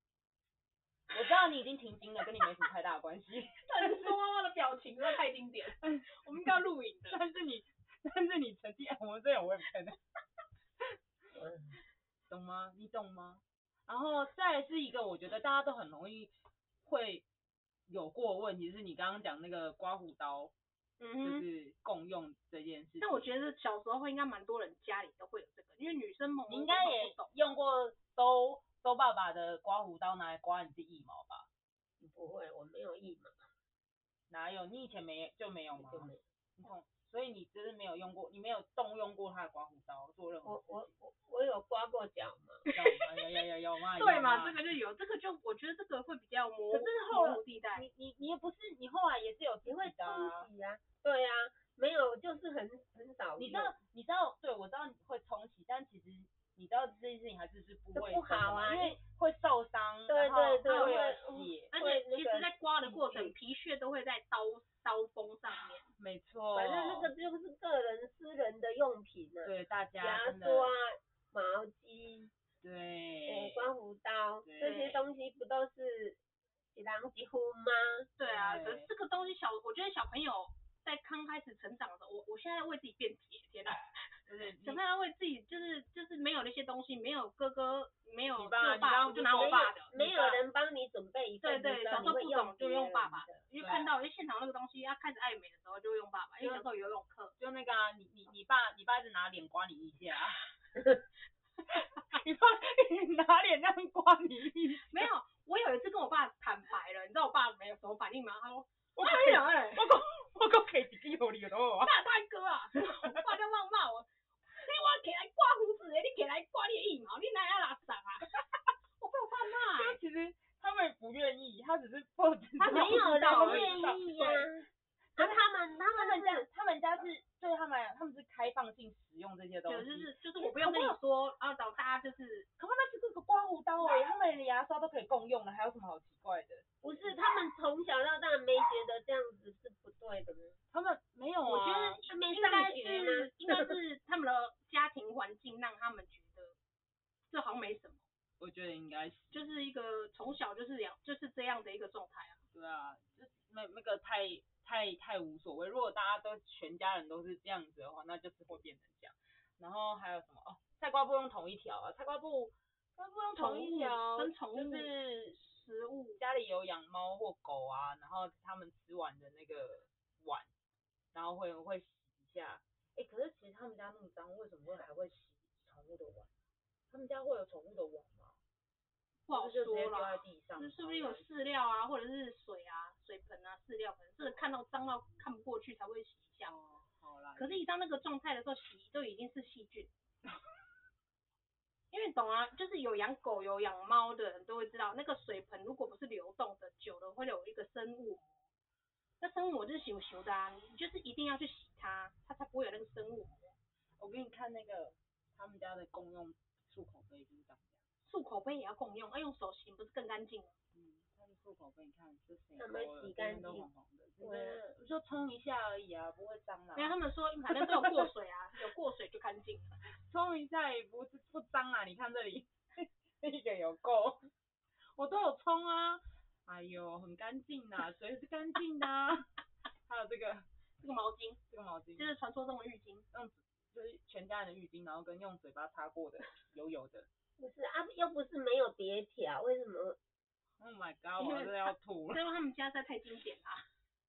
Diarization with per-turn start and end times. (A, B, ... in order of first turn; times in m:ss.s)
0:01.1-0:04.2 A
0:03.6-0:07.2 B
0:05.8-0:10.0 A
0:11.4-0:11.8 C
0:12.3-0:17.2 A
0:17.9-0:20.5 A
0:21.0-0:21.4 B
0:21.2-0:23.3 A
0:23.0-0:27.3 B
0:26.5-0:31.5 A
0:32.0-0:33.5 C
0:34.3-0:40.9 A
0:35.8-0:36.2 C
0:40.4-0:42.6 C
0:42.7-0:42.9 B
0:42.7-0:44.6 A
0:44.0-0:47.9 B
0:46.7-0:50.5 A
0:49.6-0:53.7 C
0:53.4-1:01.7 A
0:57.9-0:59.0 C
1:00.1-1:03.0 C
1:00.6-1:01.1 B
1:01.7-1:05.9 B
1:05.9-1:07.1 A
1:06.5-1:12.3 C
1:09.4-1:10.7 A
1:12.6-1:13.7 A
1:13.3-1:16.2 C
1:14.4-1:15.0 A
1:16.7-1:18.1 C
1:18.2-1:24.1 B
1:18.2-1:18.9 A
1:24.3-1:24.8 A
1:24.6-1:30.3 B
1:28.4-1:30.2 A
1:29.2-1:33.4 C
1:31.4-1:37.3 B
1:33.6-1:33.9 A
1:37.4-1:40.4 A
1:41.7-1:45.1 A
1:44.9-1:49.9 B
1:49.0-1:52.0 A
1:51.8-1:58.3 B
1:59.0-2:00.0 B
1:59.6-2:04.5 A
2:02.6-2:04.1 B
2:02.7-2:06.5 C
2:05.2-2:11.0 A
2:09.7-2:12.5 B
2:12.6-2:16.7 A
2:16.8-2:20.6 C
2:20.7-2:22.0 A
2:21.5-2:23.7 C
2:22.0-2:26.6 B
2:27.3-2:28.0 B
2:28.4-2:29.4 A
2:29.3-2:32.4 B
2:32.5-2:45.4 A
2:43.4-2:46.2 B
2:46.2-2:50.5 A
2:51.1-2:56.3 A
2:56.9-2:58.4 A
2:59.3-3:06.5 B
2:59.3-3:01.3 A
3:06.4-3:07.6 A
3:07.4-3:09.9 B
3:11.9-3:18.3 B
3:19.2-3:23.5 B
3:24.0-3:27.7 A
3:28.0-3:30.5 B
3:30.7-3:37.0 A
3:32.6-3:33.7 C
3:34.2-3:34.7 C
3:36.8-3:39.8 B
3:37.5-3:38.1 A
3:40.0-3:44.3 A
3:45.0-3:49.3 A
3:49.9-3:50.5 A
3:50.8-3:51.4 B
3:51.5-3:52.1 A
3:52.0-3:53.0 B
3:53.1-3:57.1 A
3:57.4-4:00.0 C
4:00.6-4:02.2 A
4:01.2-4:03.6 B